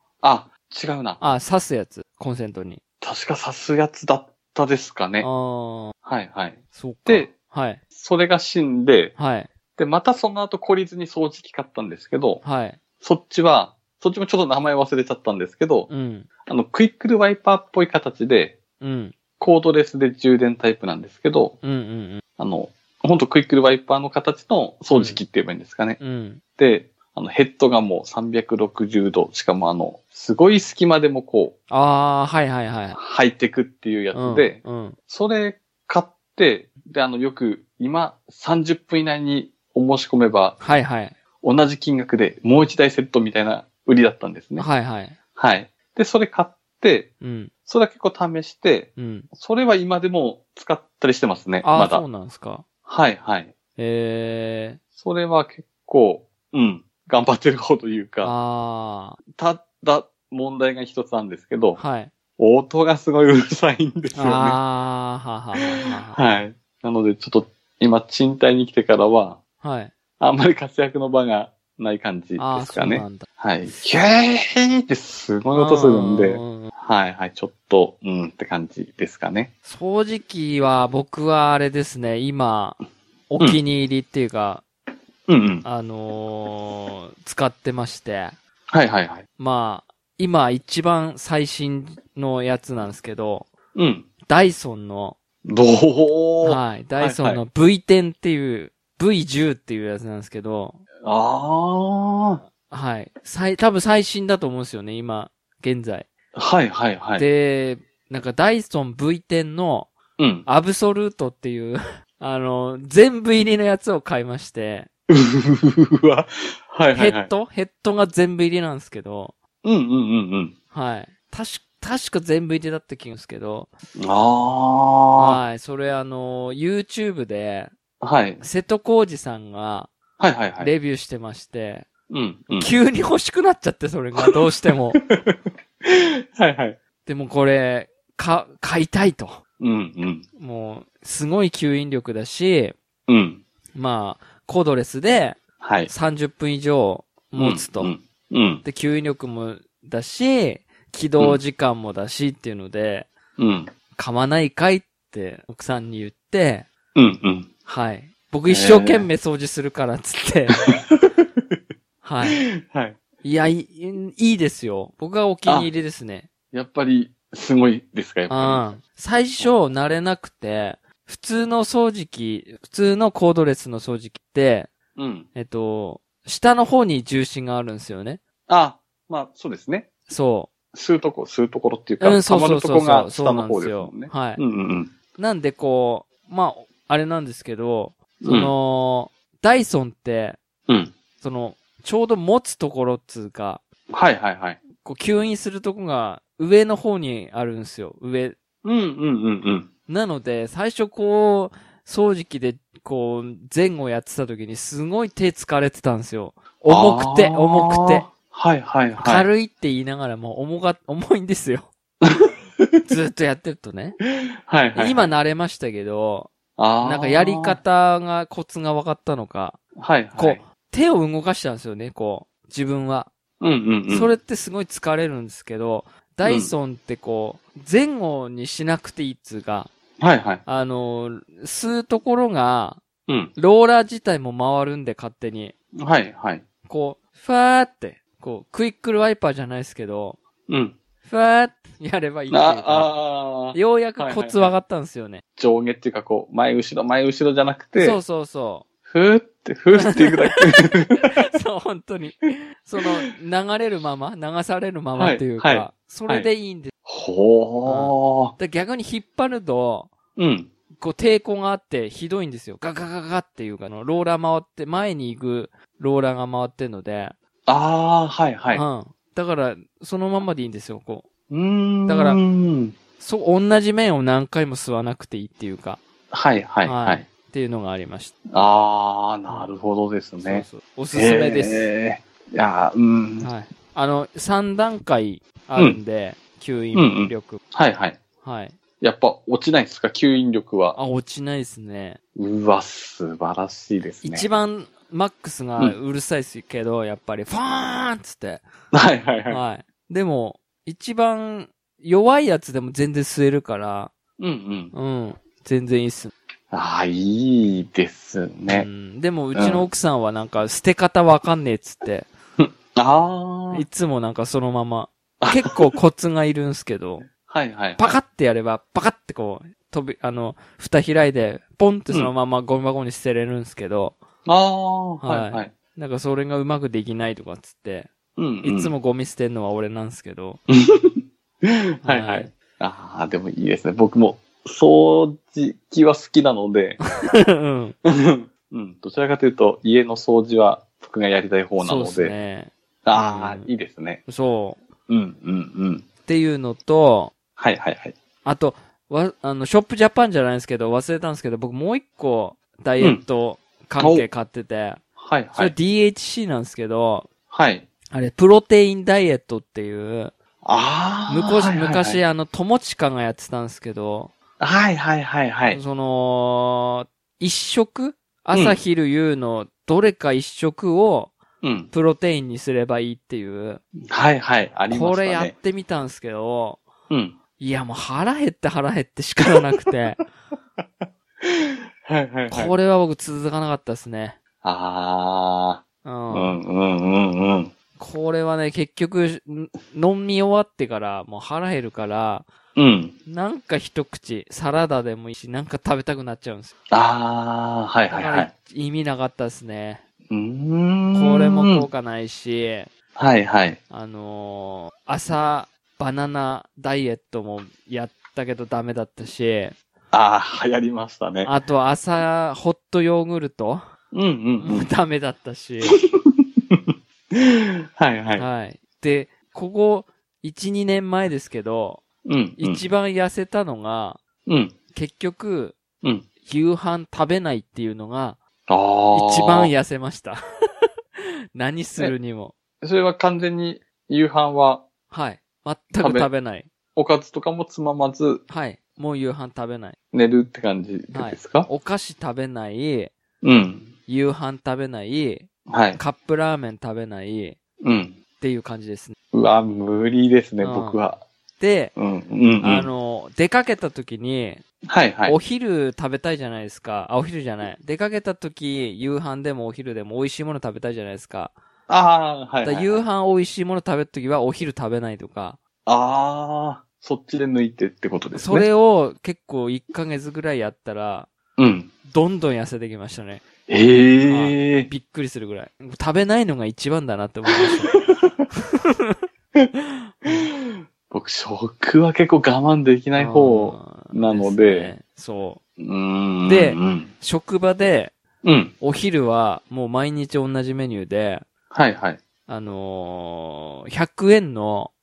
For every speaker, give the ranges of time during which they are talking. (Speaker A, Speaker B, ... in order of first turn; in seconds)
Speaker A: 0.2-1.2, 3.0-5.3, 6.0-7.3, 7.9-9.2, 9.8-12.4, 13.0-15.9, 16.4-18.6, 19.4-21.6, 22.4-26.0, 26.6-31.5, 32.9-40.6, 41.4-44.6, 45.4-47.1, 47.7-52.0, 52.9-53.5, 55.0-58.3, 59.4-61.8, 62.4-64.6, 65.6-69.4, 70.2-79.5, 85.3-85.6, 88.7-89.2, 93.7-94.1, 95.4-97.4, 101.0-102.4, 106.3-107.2, 110.2-110.5, 115.1-117.3, 119.6-120.5, 124.0-125.4, 128.0-128.4, 130.2-130.7, 132.1-132.7, 134.9-136.8, 139.6-140.2, 143.1-143.4, 145.6-145.9, 147.3-148.6, 153.4-153.7, 156.9-157.5, 158.5-159.1, 160.7-161.0, 162.3-163.0, 166.5-168.7, 174.9-175.3, 178.5-179.9, 180.7-184.9, 188.2-188.5, 190.7-190.9, 193.9-194.6, 198.6-199.7, 206.7-209.3, 212.0-212.7, 214.5-215.1, 216.6-217.6, 219.8-220.4, 223.4-224.1, 226.2-226.5, 230.0-230.4, 233.1-233.3, 235.8-236.4, 240.5-240.8, 242.3-244.5, 245.4-248.0, 248.9-251.1, 254.9-256.3, 256.9-258.3, 260.2-260.5, 267.5-268.6, 271.3-272.8, 276.1-277.1, 278.3-283.3, 286.7-288.0, 288.8-290.8, 292.1-294.3, 298.7-299.4, 304.2-304.7, 306.5-308.7, 309.3-309.7, 312.4-313.6, 315.2-315.6, 317.3-318.0, 324.2-325.5, 328.2-328.7, 330.5-336.8, 337.8-342.1, 342.8-344.0, 344.9-345.9, 347.4-347.9, 353.8-354.1, 355.0-355.5, 357.3-357.6, 360.4-362.0, 364.4-365.6, 368.3-368.6, 371.4-371.7, 373.9-375.3, 376.9-377.2, 380.8-382.5, 384.4-387.5, 392.6-392.9, 396.7-398.3, 400.1-401.6, 402.9-403.6, 409.9-411.3, 413.9-414.7, 415.9-416.6, 417.1-418.2, 422.0-422.6, 424.2-424.5, 428.5-429.5, 432.6-434.6, 435.8-436.1, 436.7-438.2, 439.9-441.5, 443.2-443.7, 445.5-445.8, 447.6-448.0, 449.1-451.0, 451.8-452.7, 454.6-455.2, 461.7-462.9, 465.6-468.5, 471.4-471.7, 473.5-474.7, 477.7-478.0, 480.1-484.7, 485.6-486.9, 488.2-488.5, 491.5-492.0
Speaker B: 1.2-2.8, 5.2-5.9, 6.7-7.8, 9.2-9.5, 12.4-12.8, 15.9-16.3, 18.8-19.1, 21.6-22.2, 24.9-25.2, 26.0-26.4, 31.7-33.0, 34.1-35.0, 40.6-41.1, 44.6-45.1, 47.2-47.5, 49.0-49.3, 51.6-52.6, 53.8-54.8, 58.2-59.2, 61.8-62.1, 64.1-66.2, 69.6-69.9, 72.4-73.3, 75.5-76.7, 79.7-82.8, 83.3-84.6, 85.6-88.3, 89.4-93.5, 94.2-95.2, 96.4-100.8, 102.6-106.1, 107.2-109.9, 110.5-114.9, 116.9-119.3, 120.7-123.7, 125.2-127.7, 128.4-129.9, 130.6-131.9, 132.6-135.0, 137.0-139.4, 140.4-142.8, 143.7-147.9, 148.6-153.1, 153.9-156.7, 157.7-160.6, 162.0-162.4, 163.2-166.3, 168.3-174.7, 175.3-178.2, 180.1-180.5, 182.0-184.4, 185.2-190.4, 191.2-193.6, 194.8-198.3, 199.9-208.1, 209.0-211.7, 212.8-214.0, 214.7-219.6, 220.1-223.1, 223.9-229.7, 230.4-232.8, 233.3-235.5, 236.7-240.2, 241.0-242.9, 243.5-245.2, 247.8-248.7, 249.7-256.7, 257.6-259.9, 260.8-267.1, 268.5-271.1, 271.9-272.2, 273.0-275.8, 276.6-278.1, 280.2-281.7, 283.2-287.4, 288.2-288.6, 290.7-292.0, 294.0-298.5, 299.3-303.9, 304.7-306.1, 308.5-312.1, 313.5-317.1, 317.8-324.0, 325.0-327.9, 328.4-330.4, 331.8-332.3, 336.8-337.8, 341.6-343.5, 344.1-344.6, 346.1-347.1, 348.2-354.8, 355.3-357.1, 357.9-360.1, 361.1-364.1, 365.5-371.1, 371.7-373.6, 374.7-376.6, 377.4-380.0, 382.3-384.2, 385.8-386.4, 387.8-392.3, 393.1-396.5, 397.9-399.8, 400.9-402.7, 403.7-409.6, 411.2-413.6, 414.4-415.8, 418.1-421.8, 422.4-424.0, 424.7-425.6, 426.2-428.2, 428.9-432.3, 434.9-436.5, 438.3-439.8, 440.9-442.9, 443.9-447.4, 448.2-448.9, 450.4-450.8, 451.4-451.7, 452.4-454.4, 455.1-461.3, 462.4-465.4, 468.1-471.1, 471.9-473.2, 474.1-477.7, 478.3-479.0, 480.0-480.3, 482.9-485.4, 486.2-487.9, 488.6-491.2, 492.3-494.7